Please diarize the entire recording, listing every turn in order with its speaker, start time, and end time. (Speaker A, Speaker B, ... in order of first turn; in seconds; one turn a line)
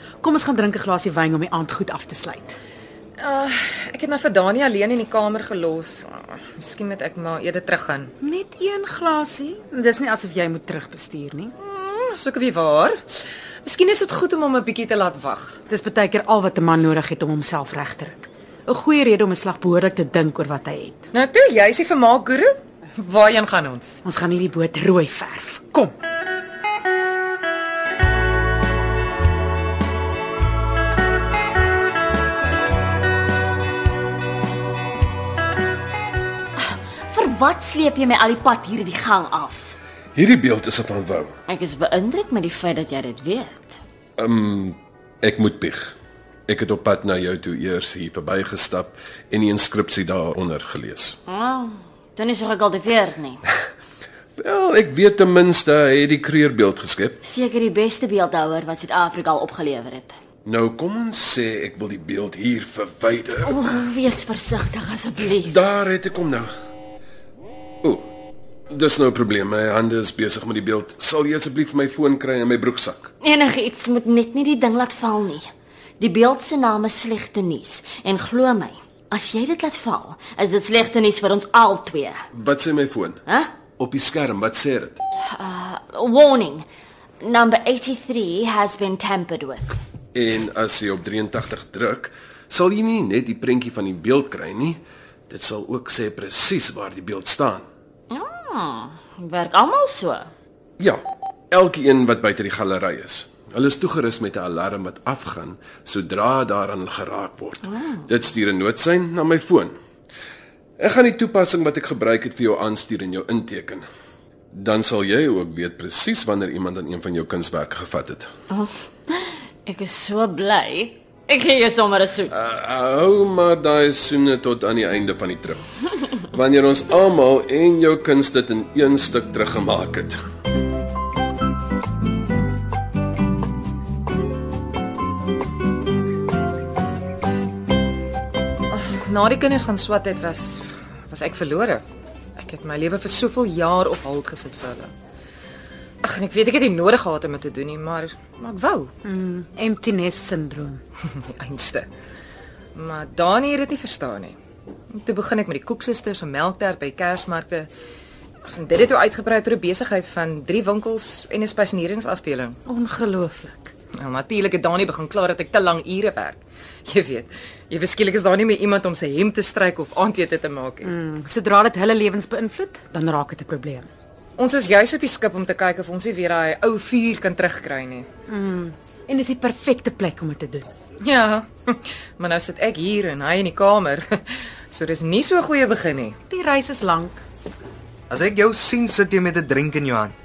Speaker A: 0.2-2.6
Speaker B: 3.2-8.1
Speaker A: 8.2-11.5
Speaker B: 11.6-13.0
Speaker B: 13.6-15.6
Speaker A: 15.7-21.1
Speaker B: 21.1-24.0
Speaker A: 24.0-25.9
Speaker C: 36.6-39.8
Speaker D: 40.1-41.3
Speaker C: 41.5-43.8
Speaker D: 44.2-45.9
Speaker D: 46.5-51.2
Speaker C: 51.3-53.4
Speaker D: 54.4-57.2
Speaker C: 57.2-60.2
Speaker D: 60.5-63.6
Speaker C: 63.5-65.6
Speaker D: 65.4-66.5
Speaker D: 67.8-68.1
Speaker D: 68.7-73.1
Speaker C: 73.2-75.5
Speaker C: 76.0-82.2
Speaker D: 82.3-83.2
Speaker C: 83.3-83.6
Speaker D: 83.8-85.0
Speaker C: 85.4-86.7
Speaker C: 87.2-89.8
Speaker D: 90.1-97.7
Speaker C: 98.1-100.3
Speaker D: 101.5-109.8
Speaker D: 110.8-113.8
Speaker D: 114.5-118.3
Speaker C: 118.5-122.3
Speaker D: 122.3-125.6
Speaker D: 126.3-130.2
Speaker B: 138.7-141.8
Speaker B: 142.4-144.9
Speaker B: 146.0-148.9
Speaker A: 149.0-150.8
Speaker B: 151.1-151.9
Speaker B: 152.8-154.4
Speaker B: 154.9-157.7
Speaker B: 158.5-162.6
Speaker A: 162.7-163.7
Speaker B: 164.0-170.9
Speaker A: 170.8-173.9
Speaker B: 174.4-178.1
Speaker A: 178.3-180.7
Speaker B: 181.0-186.2
Speaker A: 186.3-187.2
Speaker E: 188.1-190.1